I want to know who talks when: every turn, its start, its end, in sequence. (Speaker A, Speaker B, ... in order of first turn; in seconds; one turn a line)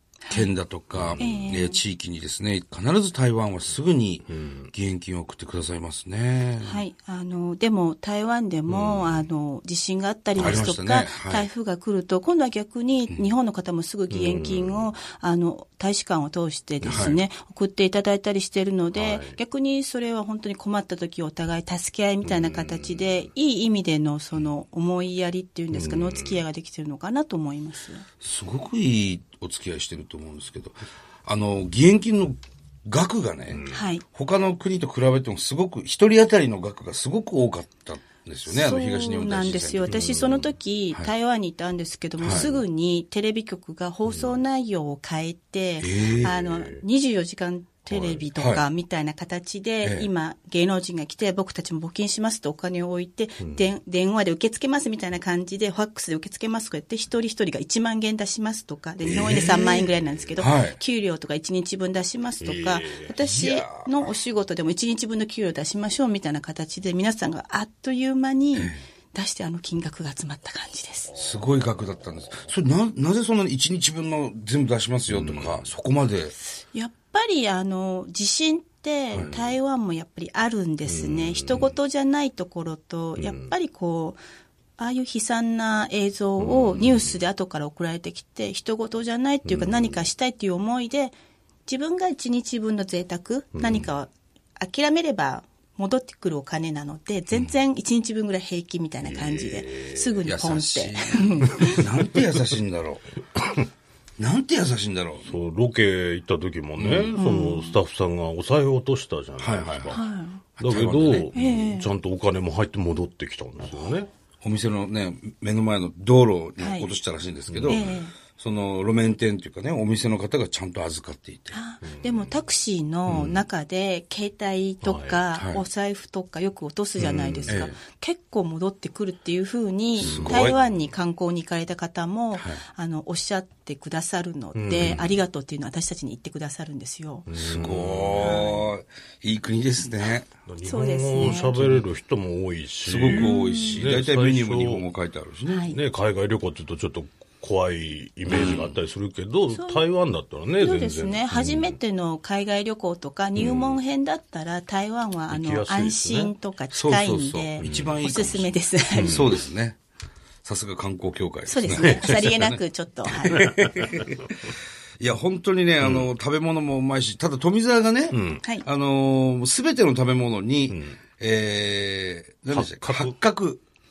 Speaker A: 0.3-6.8
Speaker B: 0.9-1.4
Speaker C: 1.2-1.8
Speaker B: 4.3-4.7
Speaker C: 6.6-28.0
Speaker B: 8.7-9.2
Speaker B: 10.4-10.7
Speaker A: 10.4-11.5
Speaker B: 14.1-14.8
Speaker A: 16.8-17.2
Speaker B: 18.9-19.3
Speaker B: 22.2-23.1
Speaker B: 25.7-26.4
Speaker A: 28.2-40.0
Speaker B: 33.5-33.8
Speaker C: 33.7-34.0
Speaker C: 38.5-71.2
Speaker B: 39.9-40.5
Speaker A: 42.2-42.5
Speaker B: 44.1-44.3
Speaker A: 45.8-46.4
Speaker B: 46.2-46.8
Speaker B: 47.9-48.3
Speaker A: 48.3-48.6
Speaker A: 49.8-50.1
Speaker A: 59.0-60.8
Speaker B: 62.4-63.1
Speaker A: 63.2-63.9
Speaker A: 68.5-68.8
Speaker A: 71.1-76.3
Speaker B: 75.1-75.6
Speaker C: 76.3-84.2
Speaker B: 79.2-79.5
Speaker B: 80.8-81.7
Speaker B: 83.2-83.5
Speaker C: 84.8-91.1
Speaker B: 86.4-87.2
Speaker B: 89.4-90.0
Speaker C: 91.7-101.9
Speaker B: 93.5-93.9
Speaker B: 99.0-100.2
Speaker A: 100.2-103.0
Speaker A: 104.2-105.3
Speaker B: 105.2-110.0
Speaker A: 106.8-107.2
Speaker C: 107.2-107.8
Speaker A: 109.4-110.0
Speaker C: 109.9-110.4
Speaker A: 110.6-111.3
Speaker B: 110.6-114.1
Speaker C: 111.3-111.9
Speaker A: 114.4-121.6
Speaker C: 116.6-116.9
Speaker B: 117.5-118.0
Speaker C: 117.7-118.1
Speaker C: 121.5-137.3
Speaker B: 121.8-122.3
Speaker B: 123.1-123.4
Speaker B: 124.8-125.2
Speaker A: 125.3-125.6
Speaker B: 127.0-127.7
Speaker A: 127.5-127.8
Speaker A: 130.0-130.5
Speaker B: 130.0-130.5
Speaker B: 134.5-135.1
Speaker B: 137.3-138.7
Speaker A: 137.4-140.3
Speaker C: 138.1-138.6
Speaker B: 140.4-144.8
Speaker C: 140.6-141.6
Speaker A: 141.2-141.9
Speaker A: 142.8-145.7
Speaker C: 143.0-143.8
Speaker C: 145.5-145.8
Speaker B: 145.7-151.8
Speaker A: 148.3-148.8
Speaker C: 148.3-148.6
Speaker C: 149.5-149.8
Speaker C: 150.6-159.4
Speaker B: 153.3-153.8
Speaker B: 155.3-156.3
Speaker A: 156.7-159.8
Speaker B: 157.6-158.0
Speaker B: 159.0-159.3
Speaker A: 160.4-173.6
Speaker C: 161.5-163.5
Speaker B: 161.8-162.2
Speaker B: 163.6-164.1
Speaker B: 165.8-166.1
Speaker B: 168.1-168.4
Speaker B: 170.7-171.0
Speaker B: 172.5-173.1